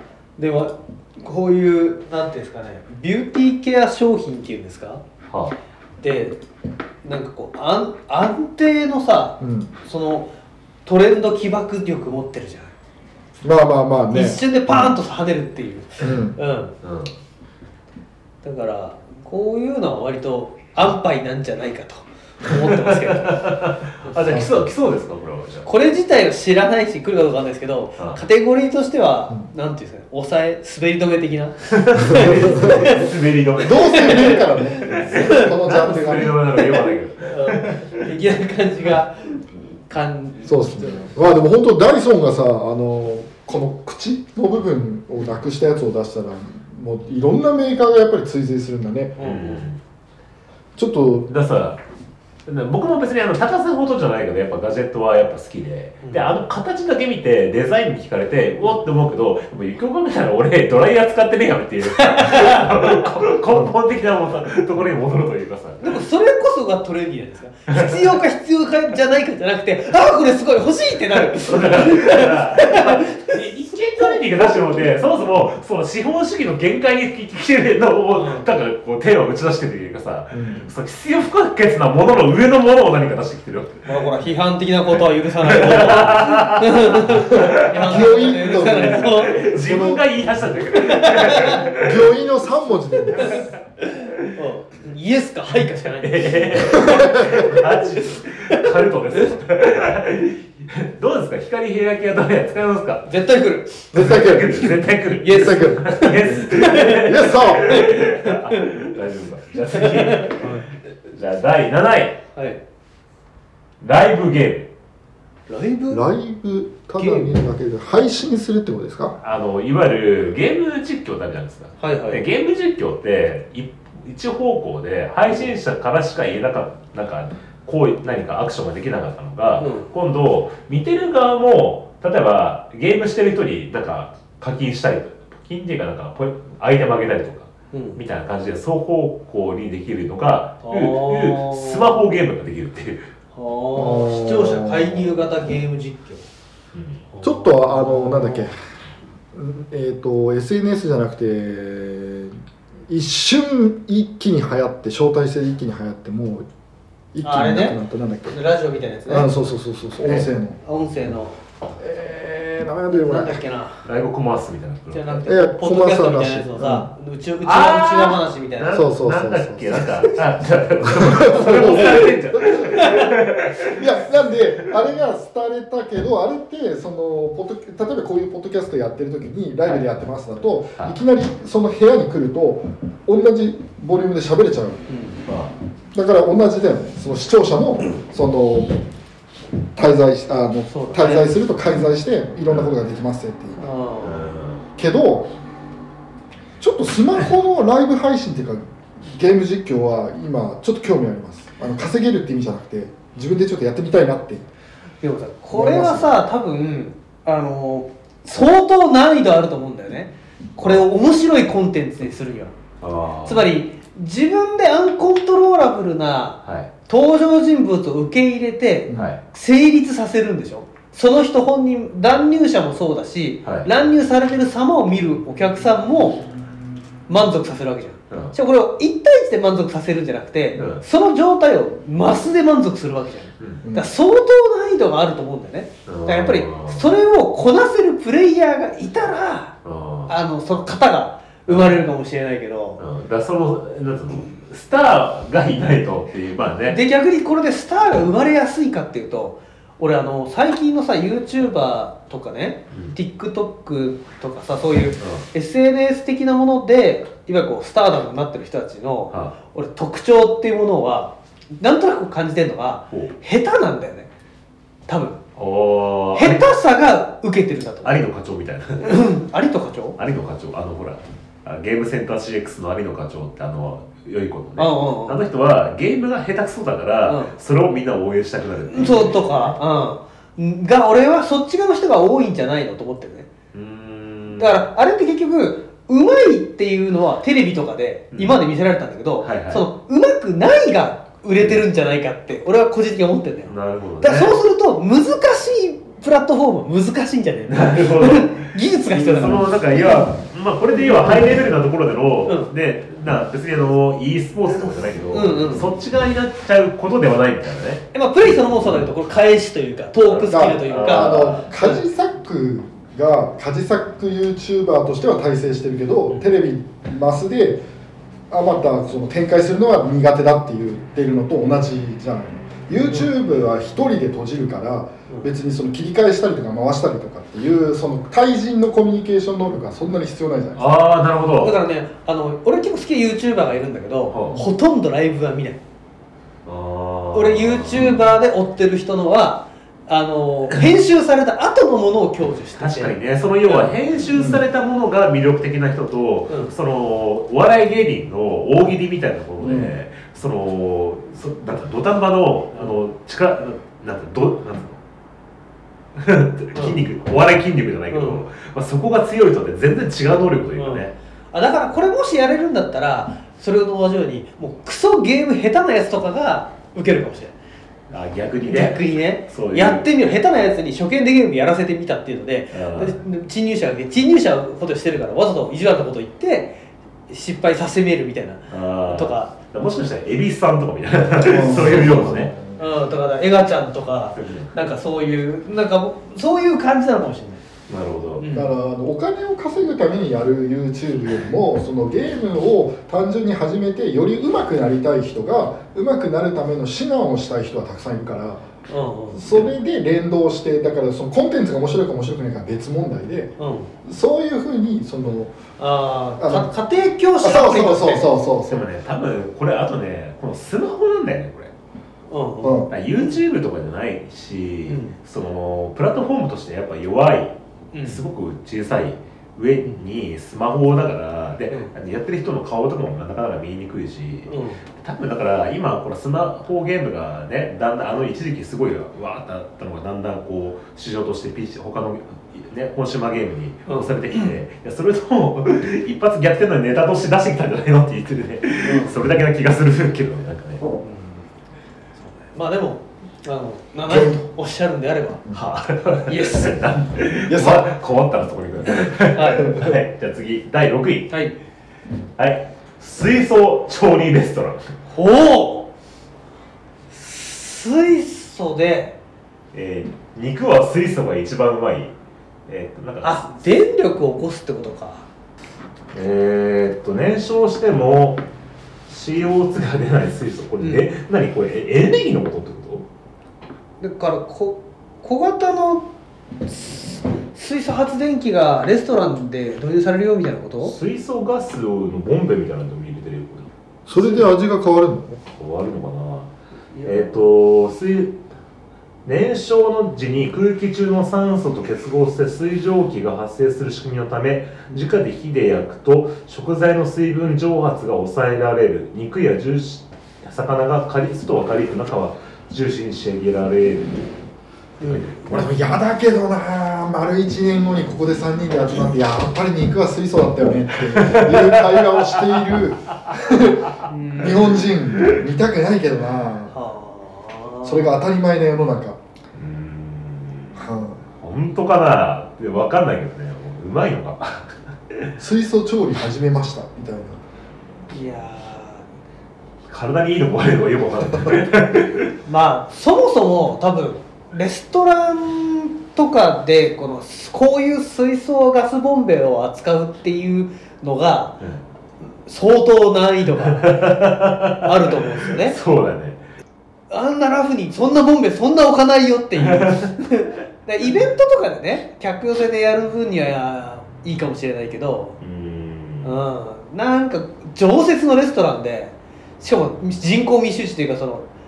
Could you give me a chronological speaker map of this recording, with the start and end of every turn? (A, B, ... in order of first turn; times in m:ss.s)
0:00.4-0:05.0 A
0:05.3-0:05.6 B
0:06.0-0:06.4 A
0:07.0-0:10.3 A
0:09.4-0:09.7 C
0:10.8-0:12.7 A
0:13.4-0:14.9 C
0:14.1-0:16.8 A
0:16.0-0:16.4 C
0:16.8-0:17.1 B
0:18.4-0:23.5 A
0:22.6-0:25.7 B
0:24.3-0:24.7 C
0:25.6-0:33.1 A
0:31.7-0:38.0 B
0:32.1-0:32.9 C
0:33.6-0:36.4 C
0:33.6-0:41.1 A
0:40.4-0:49.2 C
0:49.2-0:49.6 A
0:49.2-0:49.8 B
0:50.8-0:51.3 C
0:51.3-0:51.8 B
0:52.4-1:06.0 B
1:01.8-1:03.2 A
1:05.8-1:14.2 A
1:07.7-1:08.1 B
1:11.3-1:24.0 B
1:18.1-1:18.4 A
1:20.3-1:20.6 C
1:23.8-1:29.4 A
1:25.4-1:32.1 B
1:27.3-1:30.0 C
1:30.8-1:31.7 A
1:31.7-1:33.4 C
1:33.1-1:39.2 A
1:36.0-1:43.1 B
1:36.8-1:37.4 C
1:43.0-1:44.2 A
1:43.9-1:47.8 C
1:43.9-1:52.2 B
1:45.2-1:48.7 A
1:49.7-1:50.6 A
1:53.8-1:54.7 B
1:55.5-1:56.0 A
1:55.9-1:59.2 C
1:57.0-1:57.3 A
1:59.2-2:23.1 B
2:01.8-2:02.2 A
2:09.6-2:09.9 A
2:17.7-2:18.0 A
2:20.6-2:21.9 A
2:23.3-2:26.3 A
2:23.7-2:25.0 C
2:26.7-2:27.0 B
2:27.1-2:28.5 A
2:27.2-2:28.6 C
2:29.3-2:36.5 C
2:37.1-2:38.4 C
2:37.2-2:39.3 A
2:39.1-2:40.6 C
2:40.6-2:41.4 A
2:41.8-2:43.4 C
2:42.9-2:43.8 A
2:43.8-2:45.2 B
2:44.9-2:48.8 A
2:45.2-2:46.9 C
2:47.4-2:53.9 B
2:48.7-2:50.0 C
2:50.8-2:53.1 C
2:51.4-2:52.1 A
2:52.6-2:53.1 A
2:53.6-3:04.8 C
3:04.9-3:05.2 A
3:05.2-3:05.5 B
3:05.9-3:08.8 C
3:09.7-3:13.6 C
3:10.7-3:11.3 A
3:13.6-3:14.2 A
3:14.0-3:14.6 B
3:14.8-3:15.3 C
3:16.6-3:24.5 C
3:25.0-3:32.5 A
3:25.5-3:26.2 C
3:32.8-3:33.4 B
3:33.2-3:46.2 A
3:36.4-3:36.7 B
3:43.4-3:43.7 B
3:47.1-3:59.5 A
3:48.1-3:48.3 B
3:50.5-3:50.8 B
3:53.4-3:53.6 B
3:53.6-3:53.9 C
3:55.8-3:56.8 B
3:59.6-4:00.1 B
4:00.1-4:02.8 A
4:01.5-4:01.8 B
4:02.8-4:06.8 B
4:06.7-4:24.1 A
4:12.7-4:13.0 B
4:15.0-4:15.2 B
4:24.9-4:25.2 A
4:25.4-4:26.4 B
4:26.1-4:28.0 A
4:27.8-4:29.0 B
4:28.8-4:30.0 A
4:30.0-4:39.6 B
4:34.6-4:35.2 A
4:37.0-4:37.3 A
4:38.7-4:43.3 A
4:43.5-4:44.6 B
4:44.4-5:00.1 A
4:48.1-4:48.4 B
4:49.2-4:49.7 B
4:53.4-4:54.4 B
4:57.5-5:07.8 B
5:05.1-5:05.6 A
5:07.9-5:11.8 A
5:10.1-5:11.4 B
5:10.3-5:17.6 C
5:18.3-5:30.6 C
5:30.6-5:31.6 B
5:31.4-5:35.6 A
5:34.1-5:34.4 B
5:36.4-5:37.9 B
5:37.1-5:43.7 A
5:42.6-5:54.8 B
5:44.1-5:44.4 C
5:49.4-5:49.7 C
5:55.9-6:00.9 B
5:56.5-5:56.8 A
5:57.9-5:58.2 A
6:00.6-6:07.3 A
6:07.9-6:09.9 B
6:08.4-6:19.3 A
6:12.5-6:13.0 B
6:18.5-6:22.3 B
6:21.2-6:22.6 C
6:21.5-6:27.4 A
6:24.2-6:24.5 B
6:27.7-6:28.2 B
6:28.2-6:28.5 A
6:28.3-6:38.4 C
6:38.7-6:39.3 A
6:39.1-6:43.3 C
6:43.4-6:43.7 A
6:43.8-6:45.3 C
6:45.6-6:48.1 A
6:46.2-6:46.5 C
6:47.2-6:48.7 C
6:48.5-6:51.5 B
6:52.1-6:53.2 A
6:52.4-6:52.7 C
6:52.7-7:20.6 B
6:54.7-6:54.9 A
6:57.7-6:58.0 A
7:04.3-7:04.6 A
7:13.7-7:14.3 A
7:18.6-7:19.0 A
7:20.8-7:21.2 A
7:22.1-7:25.2 A
7:23.9-7:24.2 C
7:25.3-7:31.1 B
7:26.1-7:26.6 A
7:27.3-7:27.7 C
7:29.1-7:29.5 A
7:31.1-7:31.4 A
7:32.2-7:34.8 B
7:34.9-7:35.7 A
7:36.9-7:39.0 A
7:39.5-7:41.9 B
7:42.5-7:43.3 B
7:43.0-7:45.0 A
7:45.9-7:48.2 B
7:48.9-7:52.8 B
7:50.6-7:51.0 A
7:53.8-7:55.9 A
7:56.4-8:00.7 A
8:00.6-8:03.5 B
8:03.8-8:05.2 C
8:04.0-8:04.3 A
8:05.4-8:06.3 B
8:06.7-8:07.2 A
8:06.8-8:08.2 B
8:09.0-8:24.1 B
8:24.8-8:25.0 A
8:24.8-8:25.5 B
8:25.3-8:36.5 C
8:30.9-8:32.6 B
8:33.9-8:34.6 A
8:34.9-8:35.3 B
8:36.5-8:38.0 A
8:37.6-8:39.0 C
8:39.3-8:40.7 B
8:40.6-8:41.0 C
8:41.2-8:45.1 B
8:45.2-8:47.2 C
8:47.9-8:48.8 A
8:49.7-8:52.1 B
8:52.2-9:01.4 A
9:02.2-9:03.9 A
9:03.5-9:06.2 B
9:04.6-9:05.6 A
9:06.9-9:15.2 A
9:09.4-9:09.9 B
9:15.2-9:16.2 B
9:16.0-9:21.3 A